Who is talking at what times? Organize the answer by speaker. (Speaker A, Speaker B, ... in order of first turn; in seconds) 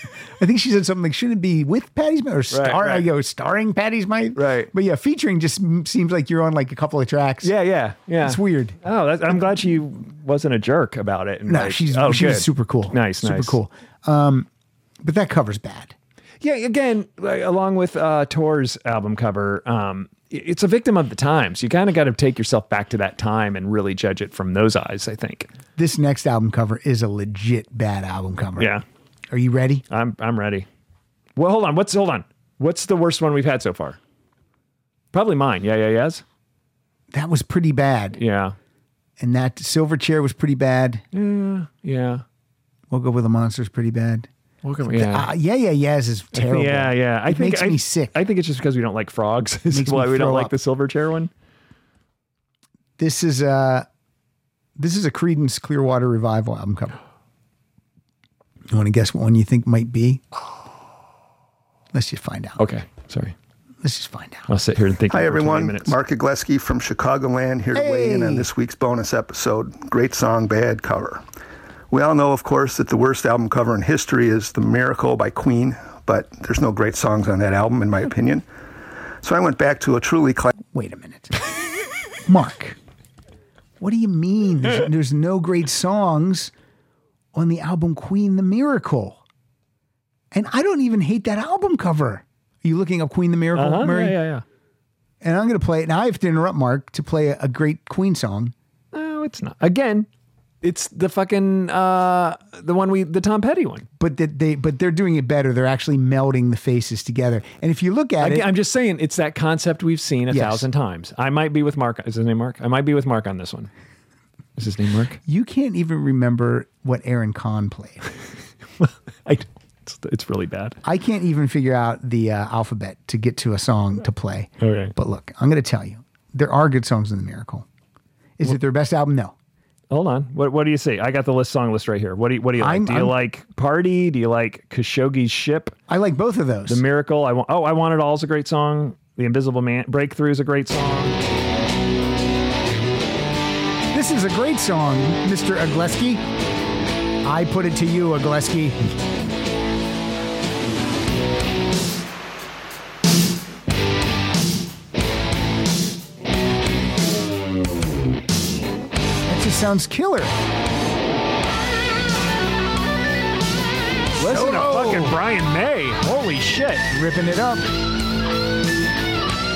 Speaker A: 0.4-7.5, 8.2-8.8, 11.5-14.5, 15.0-15.9, 25.8-28.7, 29.3-29.8, 37.1-38.2, 39.2-41.0, 42.9-44.3, 44.8-48.1, 49.7-50.5, 53.0-53.9, 54.8-57.0, 58.7-60.2, 61.9-62.6, 63.8-64.5, 67.7-68.5, 80.7-81.3, 82.2-82.8, 83.8-86.5, 87.3-89.2, 90.3-94.2, 95.2-98.5, 104.0-108.5, 110.3-110.7, 115.2-118.0, 120.8-127.6, 128.4-129.3, 132.6-133.1, 135.9-136.8, 143.9-146.2, 147.2-148.8, 159.3-160.3, 164.2-165.2, 166.9-167.6
Speaker B: 2.5-3.1, 4.3-4.7, 7.4-13.6, 16.4-25.5, 29.9-30.6, 31.4-34.0, 35.1-36.2, 38.1-38.5, 41.1-42.2, 44.6-45.3, 46.3-51.3, 62.6-63.3, 64.5-66.0, 93.5-94.4, 98.9-100.1, 100.6-103.9, 108.2-113.7, 114.6-115.2, 118.8-120.8, 124.6-124.9, 129.9-135.7, 136.7-141.2, 164.2-166.8
Speaker C: 65.1-71.2, 71.9-78.4, 79.2-80.5